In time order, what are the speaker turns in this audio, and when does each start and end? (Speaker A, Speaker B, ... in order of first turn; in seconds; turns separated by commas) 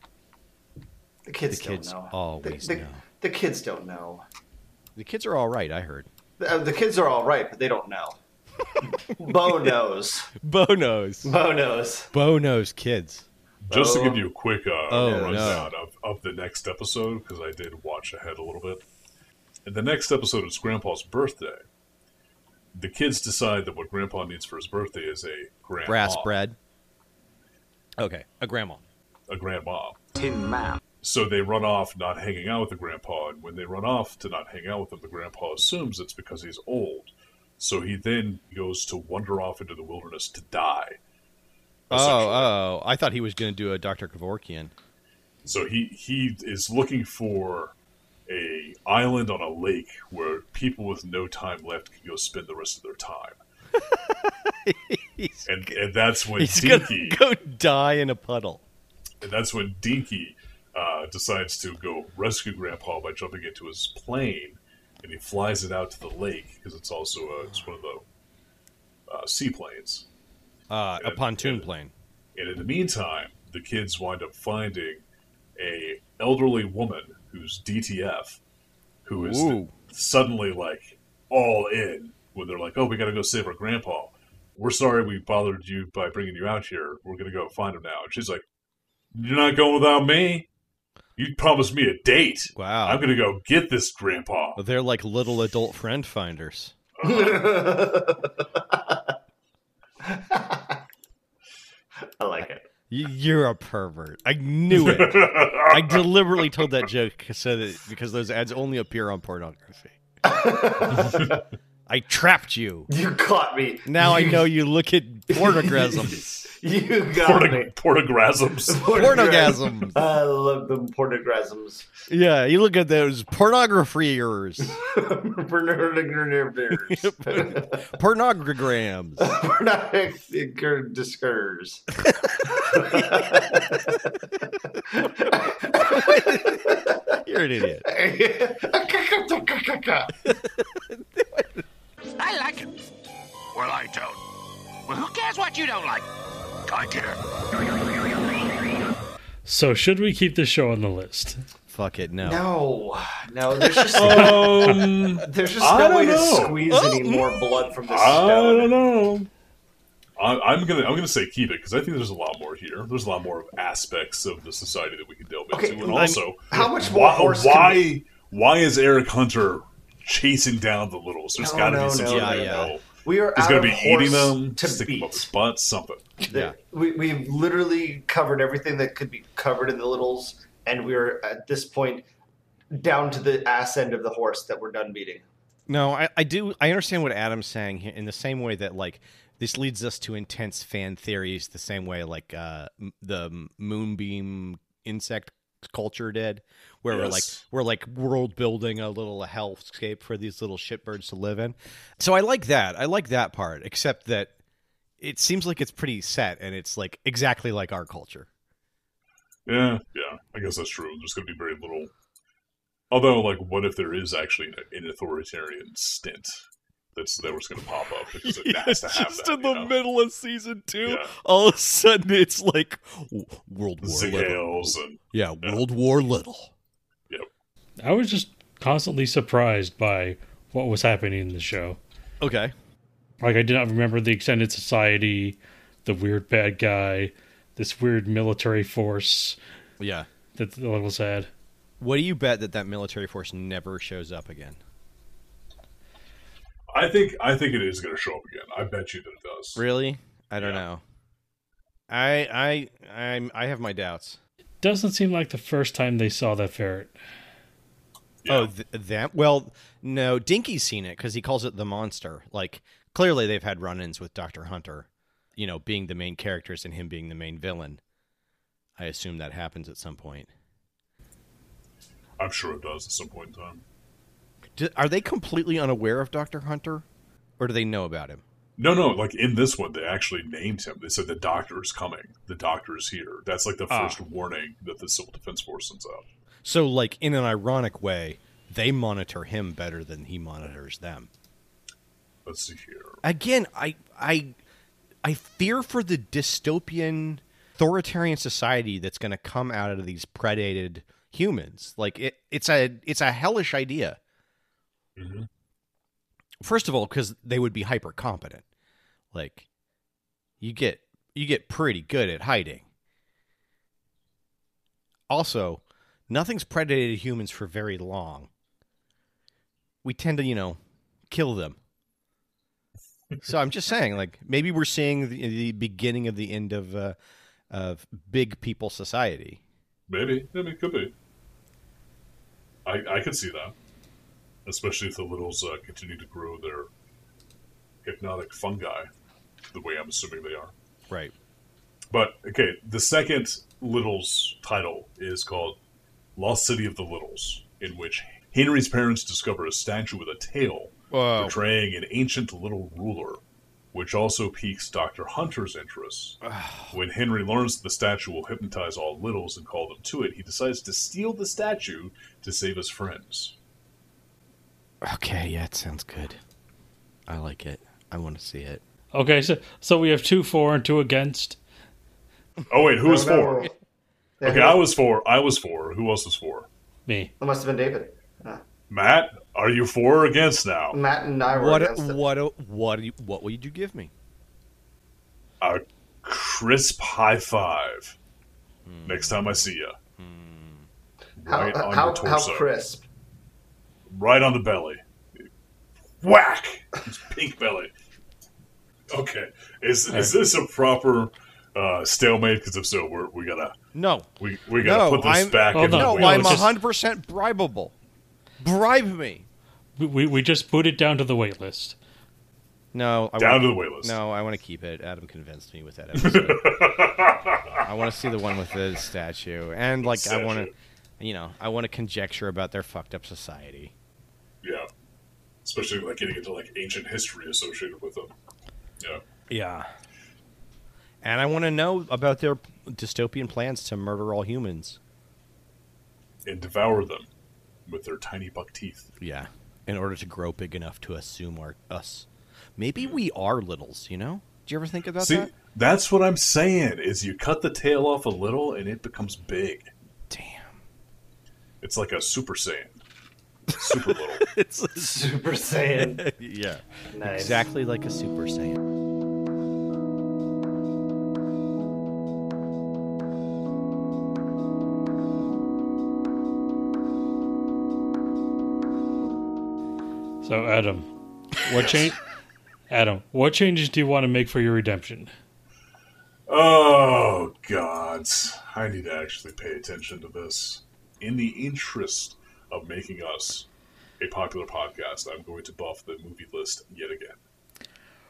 Speaker A: 1.2-4.2, Speaker B: 1.5-3.0, Speaker B: 5.0-6.1, Speaker A: 6.4-8.2, Speaker A: 9.0-10.3, Speaker B: 9.2-9.6, Speaker B: 10.4-11.4, Speaker A: 11.2-12.1, Speaker B: 12.1-13.2, Speaker C: 13.6-18.8, Speaker A: 13.7-14.3, Speaker B: 14.9-15.7, Speaker A: 14.9-15.7, Speaker C: 19.6-21.6, Speaker C: 22.7-26.3, Speaker B: 25.8-26.6, Speaker B: 28.0-28.8, Speaker C: 29.3-30.0, Speaker D: 30.1-30.8, Speaker C: 31.0-41.0, Speaker C: 41.9-42.5, Speaker B: 41.9-44.7, Speaker C: 45.4-47.7, Speaker C: 48.3-53.4, Speaker B: 53.7-55.8, Speaker C: 55.5-57.2, Speaker B: 56.4-58.6, Speaker C: 59.2-68.0, Speaker C: 69.1-70.0, Speaker B: 70.7-71.9, Speaker C: 71.0-71.7, Speaker C: 72.3-75.0, Speaker C: 75.6-78.4, Speaker C: 79.0-88.4, Speaker B: 79.2-79.7, Speaker C: 89.1-90.5, Speaker C: 91.2-94.6, Speaker B: 92.5-93.0, Speaker B: 94.5-96.7, Speaker C: 97.0-97.5, Speaker A: 97.0-99.1, Speaker A: 100.0-100.8, Speaker A: 102.1-102.6, Speaker B: 102.9-109.9, Speaker C: 104.7-106.0, Speaker A: 110.2-111.4, Speaker B: 111.9-112.9, Speaker A: 112.9-114.4, Speaker B: 113.8-116.4, Speaker A: 115.3-117.7, Speaker C: 117.2-118.8, Speaker A: 118.7-121.9, Speaker B: 118.8-120.0, Speaker B: 122.1-124.8, Speaker A: 124.7-127.9, Speaker B: 126.7-129.3, Speaker A: 129.2-131.9, Speaker A: 132.4-137.1, Speaker B: 135.7-137.8, Speaker A: 137.8-140.2, Speaker B: 140.2-141.6, Speaker D: 142.2-142.8, Speaker D: 143.5-144.2, Speaker D: 144.8-146.1, Speaker D: 146.7-147.2, Speaker E: 149.4-151.4, Speaker B: 151.7-152.4, Speaker A: 152.2-158.8, Speaker B: 153.6-154.7, Speaker C: 153.9-156.6, Speaker B: 156.7-157.4, Speaker C: 157.8-159.3, Speaker C: 160.2-176.0, Speaker A: 165.5-167.8, Speaker B: 165.8-166.2, Speaker A: 171.4-175.3, Speaker B: 172.0-172.7, Speaker A: 176.2-182.0, Speaker B: 176.3-176.5, Speaker A: 182.7-185.2, Speaker B: 185.7-204.3, Speaker C: 196.9-197.4, Speaker B: 205.0-208.3, Speaker C: 209.4-211.9, Speaker C: 212.9-216.4, Speaker C: 216.9-219.7, Speaker B: 218.2-226.5, Speaker C: 220.8-221.1, Speaker C: 223.8-225.6, Speaker E: 227.8-231.8, Speaker B: 232.2-232.5, Speaker E: 233.2-239.4, Speaker B: 239.8-240.1, Speaker E: 240.3-241.3, Speaker B: 241.8-244.6, Speaker C: 246.7-249.6, Speaker B: 249.6-250.8, Speaker C: 250.4-250.6, Speaker B: 251.9-254.2, Speaker E: 254.6-256.9, Speaker C: 258.2-258.5, Speaker B: 258.3-267.8, Speaker B: 268.8-270.3, Speaker C: 272.2-273.6, Speaker B: 274.6-276.8, Speaker B: 277.4-278.2, Speaker C: 278.6-286.1, Speaker B: 283.7-284.0, Speaker B: 286.4-291.1, Speaker C: 292.2-293.0, Speaker B: 293.0-294.4, Speaker B: 295.0-304.0, Speaker C: 305.0-305.3, Speaker B: 306.4-308.4, Speaker B: 309.1-309.4, Speaker B: 310.4-312.6, Speaker B: 315.1-318.3, Speaker B: 319.8-320.6, Speaker B: 321.1-321.6, Speaker B: 323.2-326.9, Speaker B: 327.5-329.4, Speaker C: 329.9-330.9, Speaker C: 332.6-333.5, Speaker C: 334.4-336.7, Speaker C: 337.8-338.9, Speaker C: 339.5-340.5, Speaker C: 341.9-345.6, Speaker C: 346.1-353.2, Speaker B: 350.9-351.4, Speaker C: 353.7-356.2, Speaker B: 356.2-356.7, Speaker C: 356.7-363.4, Speaker B: 364.8-366.2, Speaker B: 367.1-368.6, Speaker E: 368.9-371.4, Speaker C: 372.5-373.5, Speaker A: 372.8-373.5, Speaker A: 374.2-374.7, Speaker C: 374.2-376.5, Speaker E: 376.9-377.1, Speaker A: 377.2-378.4, Speaker C: 378.7-380.8, Speaker A: 380.7-382.0, Speaker B: 381.3-383.9, Speaker C: 385.4-387.9, Speaker B: 388.6-390.7, Speaker C: 388.9-389.8, Speaker C: 391.2-392.5, Speaker A: 391.3-392.8, Speaker C: 393.9-395.3, Speaker C: 396.0-397.7, Speaker C: 398.9-403.6, Speaker B: 403.7-407.7, Speaker C: 404.2-406.5, Speaker E: 405.5-406.5, Speaker B: 408.4-409.2, Speaker E: 409.8-411.8, Speaker B: 412.7-416.6, Speaker C: 413.2-414.0, Speaker C: 415.9-417.6, Speaker B: 417.6-423.7, Speaker C: 419.8-420.5, Speaker C: 424.4-424.7, Speaker C: 425.4-428.1, Speaker B: 429.3-429.7, Speaker B: 431.0-434.8, Speaker C: 436.2-437.1, Speaker C: 437.7-438.9, Speaker B: 439.0-445.3, Speaker C: 445.0-449.7, Speaker B: 450.1-450.6, Speaker C: 451.6-452.8, Speaker C: 453.5-454.3, Speaker B: 453.6-455.1, Speaker A: 454.8-456.0, Speaker B: 455.8-458.6, Speaker A: 456.9-457.4, Speaker E: 470.2-472.0, Speaker C: 471.5-471.8, Speaker E: 472.7-475.1, Speaker C: 476.3-483.5, Speaker C: 484.0-487.2